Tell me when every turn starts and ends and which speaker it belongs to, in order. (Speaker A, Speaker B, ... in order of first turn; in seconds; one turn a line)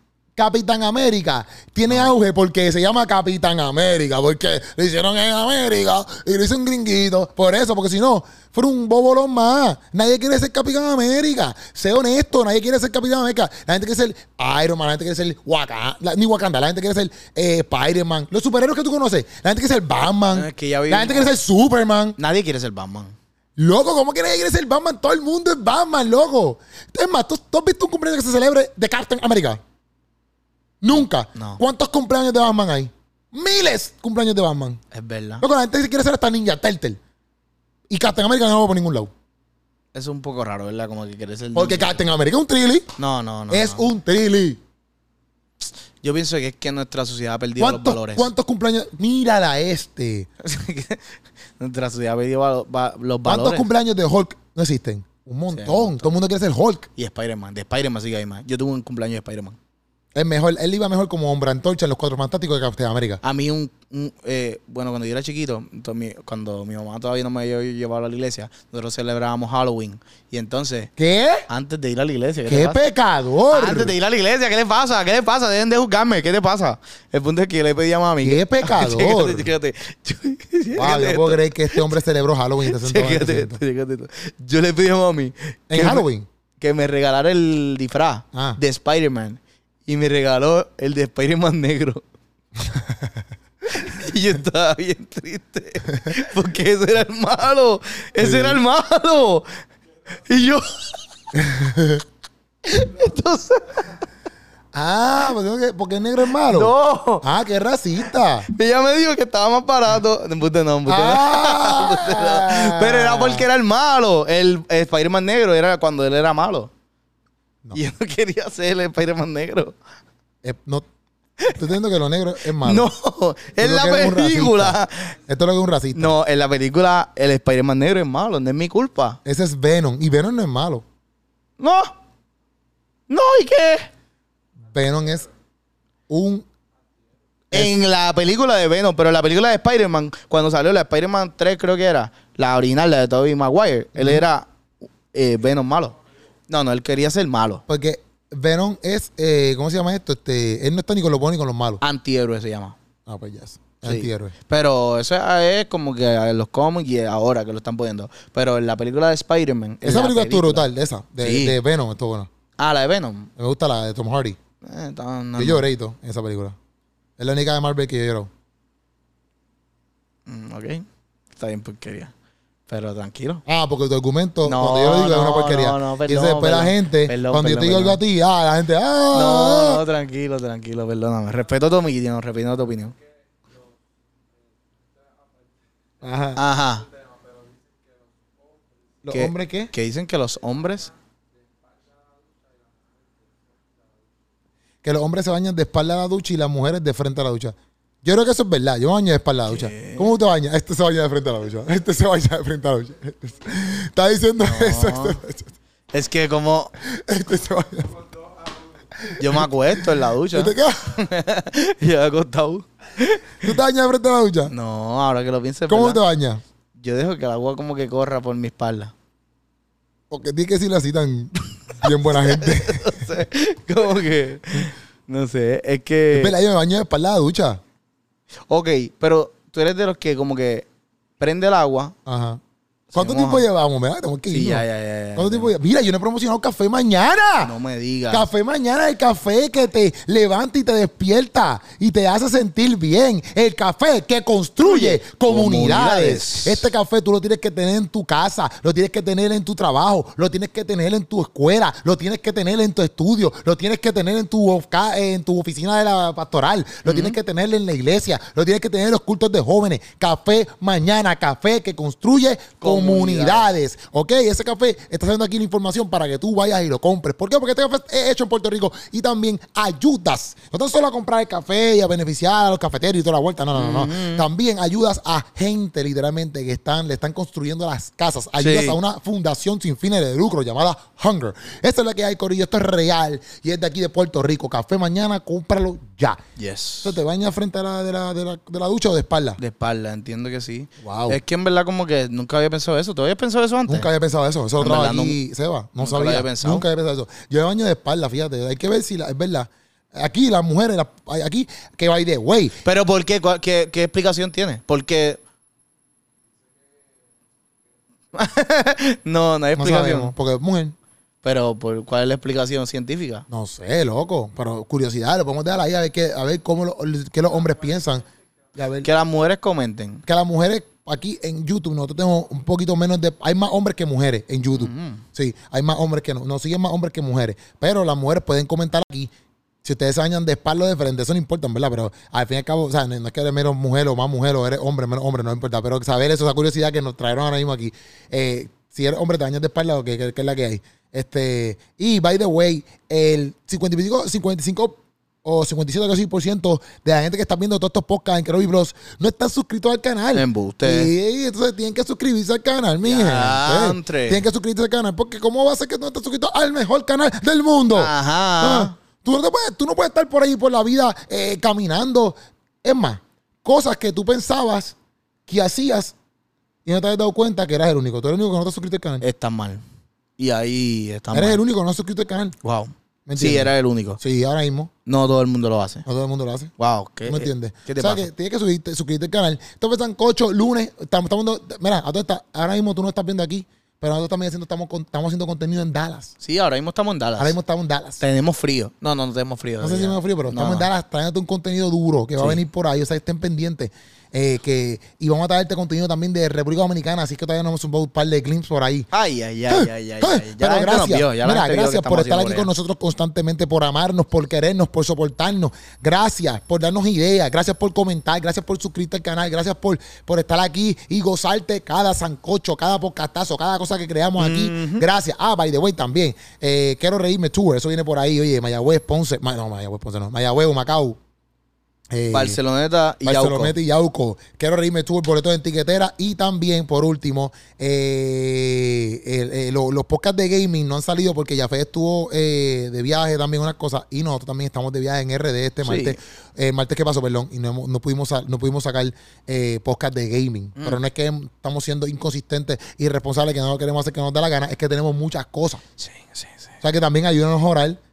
Speaker A: 0.4-22.2
Speaker B: 20.3-21.4
Speaker B: 22.2-23.1
Speaker A: 23.6-29.6
Speaker A: 30.8-34.8
Speaker B: 31.3-31.6
Speaker B: 34.9-35.4
Speaker A: 35.4-37.0
Speaker A: 37.9-39.1
Speaker B: 39.9-42.0
Speaker A: 41.5-42.9
Speaker B: 43.0-43.9
Speaker A: 43.5-44.6
Speaker B: 46.0-48.3
Speaker A: 47.6-50.3
Speaker B: 50.4-53.7
Speaker A: 53.2-56.9
Speaker B: 55.5-56.1
Speaker B: 57.0-59.6
Speaker A: 60.1-63.2
Speaker B: 63.2-70.9
Speaker A: 71.0-71.5
Speaker B: 71.5-72.8
Speaker A: 72.5-73.9
Speaker B: 73.5-82.0
Speaker A: 78.2-79.5
Speaker A: 80.7-83.6
Speaker B: 82.7-86.1
Speaker A: 85.7-86.2
Speaker B: 86.6-92.0
Speaker A: 88.3-88.6
Speaker A: 92.7-93.0
Speaker B: 93.6-99.5
Speaker A: 98.2-98.6
Speaker B: 100.2-101.0
Speaker A: 101.3-102.0
Speaker B: 102.6-104.0
Speaker A: 104.7-108.5
Speaker B: 106.4-107.2
Speaker B: 108.5-116.7
Speaker A: 110.9-113.5
Speaker B: 117.7-119.8
Speaker A: 120.4-120.8
Speaker A: 121.5-122.9
Speaker B: 122.5-125.1
Speaker A: 123.6-126.1
Speaker B: 125.9-129.2
Speaker A: 129.2-130.8
Speaker B: 131.6-131.9
Speaker B: 133.1-133.9
Speaker A: 134.7-135.3
Speaker A: 136.1-136.4
Speaker B: 137.5-144.5
Speaker A: 143.9-144.2
Speaker B: 145.1-145.9
Speaker B: 146.5-147.6
Speaker A: 147.7-151.8
Speaker B: 151.8-152.8
Speaker A: 153.1-154.3
Speaker B: 153.8-160.7
Speaker A: 159.8-162.3
Speaker B: 161.2-161.6
Speaker B: 162.6-163.3
Speaker A: 163.4-164.4
Speaker B: 164.6-165.7
Speaker A: 165.4-166.6
Speaker A: 167.2-168.3
Speaker B: 170.2-170.8
Speaker B: 171.3-172.1
Speaker B: 172.7-173.4
Speaker A: 173.4-179.8
Speaker B: 174.4-178.0
Speaker B: 179.1-182.9
Speaker A: 186.0-186.4
Speaker B: 186.3-186.9
Speaker A: 189.0-189.7
Speaker B: 189.1-190.9
Speaker A: 194.8-205.5
Speaker B: 199.5-200.1
Speaker B: 204.4-205.2
Speaker B: 205.9-206.7
Speaker A: 206.8-208.1
Speaker A: 209.0-210.9
Speaker B: 209.2-213.6
Speaker A: 213.4-214.5
Speaker B: 214.5-216.0
Speaker A: 215.7-216.4
Speaker B: 216.8-218.9
Speaker A: 220.1-223.1
Speaker B: 221.8-226.3
Speaker A: 226.1-227.6
Speaker B: 228.5-230.7
Speaker B: 231.2-231.9
Speaker A: 232.1-232.4
Speaker B: 232.9-233.5
Speaker A: 232.9-237.5
Speaker B: 234.3-235.5
Speaker B: 237.4-238.3
Speaker A: 238.1-286.2
Speaker B: 244.6-246.7
Speaker B: 256.8-257.1
Speaker B: 262.6-263.5
Speaker B: 273.5-274.2
Speaker B: 278.4-278.8
Speaker B: 286.4-286.9
Speaker A: 286.8-289.4
Speaker B: 289.4-293.9
Speaker A: 290.8-291.2
Speaker A: 293.7-302.6
Speaker B: 294.6-295.2
Speaker B: 295.8-296.6
Speaker B: 302.6-305.2
Speaker B: 308.1-310.1
Speaker A: 309.6-310.7
Speaker B: 311.2-313.2
Speaker A: 313.3-318.0
Speaker A: 318.5-318.9
Speaker B: 318.8-320.0
Speaker A: 320.1-329.1
Speaker B: 324.5-325.0
Speaker A: 329.6-365.9
Speaker B: 350.1-350.9
Speaker B: 352.8-354.2
Speaker B: 357.7-358.7
Speaker A: 366.6-369.0
Speaker B: 369.0-369.6
Speaker B: 370.2-371.4
Speaker A: 371.1-372.4
Speaker B: 372.4-374.0
Speaker A: 373.1-374.7
Speaker B: 374.9-375.8
Speaker A: 375.9-376.5
Speaker B: 376.6-378.1
Speaker A: 377.1-386.1
Speaker B: 386.2-387.4
Speaker A: 387.2-388.0
Speaker B: 388.0-390.7
Speaker A: 389.6-398.9
Speaker B: 398.9-402.5
Speaker A: 399.5-421.0
Speaker B: 414.2-414.8
Speaker A: 421.9-422.4
Speaker B: 422.1-423.5
Speaker A: 423.0-445.6
Speaker B: 435.6-436.0
Speaker B: 445.8-446.5
Speaker A: 446.6-447.8